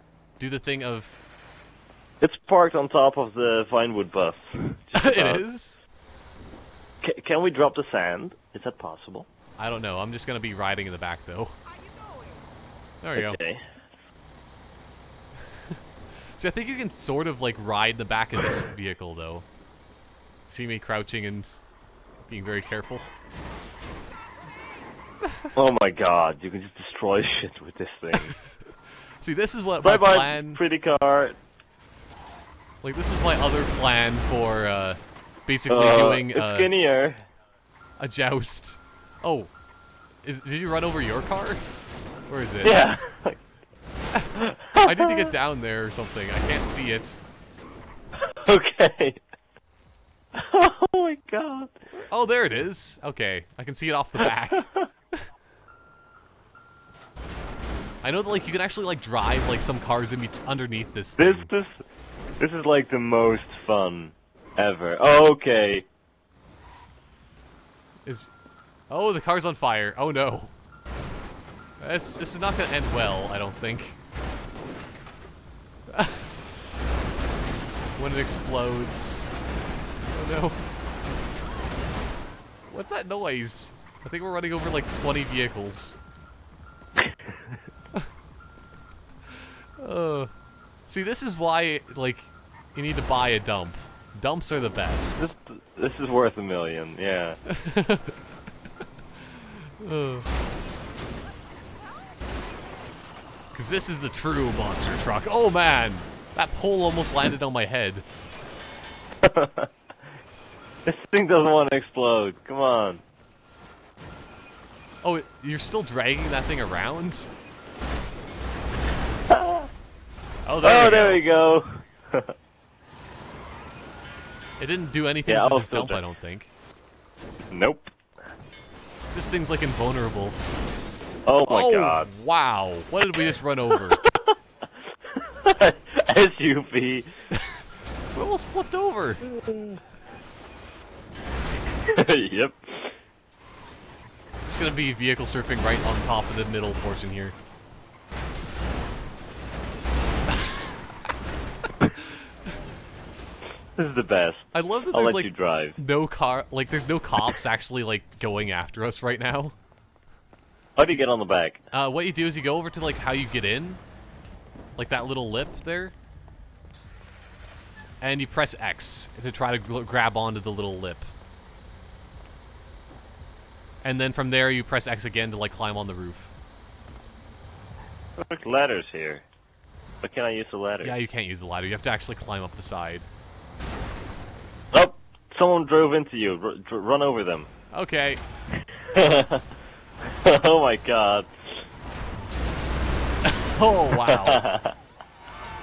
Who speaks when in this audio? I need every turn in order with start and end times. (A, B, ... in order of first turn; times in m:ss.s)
0:00.4-0:01.2 A
0:02.2-0:05.4 B
0:05.0-0:05.8 A
0:07.0-0:09.3 B
0:09.6-0:11.6 A
0:13.0-0:13.4 A
0:13.2-0:13.6 B
0:16.4-0:19.5 A
0:20.5-0:21.6 A
0:22.3-0:23.1 A
0:25.5-0:28.4 B
0:29.2-0:30.6 A
0:29.8-0:31.4 B
0:32.8-0:36.7 A
0:35.7-0:37.2 B
0:38.0-0:39.5 A
0:40.2-0:41.6 A
0:42.3-0:42.8 A
0:42.6-0:43.4 B
0:44.4-0:45.3 B
0:44.8-0:47.2 A
0:48.3-0:49.2 B
0:50.4-0:51.7 B
0:51.9-0:55.2 A
0:54.6-0:54.9 B
0:58.0-1:01.5 A
1:01.2-1:01.8 B
1:02.4-1:05.9 B
1:08.0-1:08.3 A
1:08.9-1:10.5 A
1:11.8-1:14.0 A
1:15.9-1:16.3 A
1:18.0-1:19.3 A
1:20.1-1:20.6 A
1:22.7-1:26.0 A
1:29.8-1:30.3 A
1:30.9-1:35.3 A
1:35.2-1:37.4 B
1:37.5-1:38.1 A
1:39.8-1:40.3 A
1:43.5-1:48.0 A
1:49.2-1:49.7 B
1:50.9-1:53.0 B
1:55.0-1:57.3 A
1:59.3-1:59.7 B
2:00.5-2:01.2 A
2:00.6-2:02.3 B
2:04.6-2:06.5 A
2:05.3-2:06.0 B
2:07.5-2:07.9 B
2:09.1-2:10.4 A
2:11.3-2:12.1 B
2:11.5-2:14.0 A
2:13.7-2:14.4 B
2:15.2-2:17.1 B
2:17.3-2:17.6 A
2:18.1-2:19.2 A
2:19.3-2:19.8 B
2:21.8-2:23.0 B
2:24.5-2:27.4 A
2:33.8-2:35.8 B
2:34.5-2:39.6 A
2:40.8-2:41.6 B
2:41.7-2:43.8 A
2:44.8-2:45.9 A
2:48.0-2:51.1 A
2:53.8-2:56.3 A
2:58.2-2:59.2 B
3:00.0-3:01.0 B
3:00.8-3:03.1 A
3:04.7-3:07.5 B
3:07.7-3:08.2 A
3:08.9-3:09.4 B
3:10.2-3:11.6 B
3:13.2-3:14.4 A
3:13.9-3:14.7 B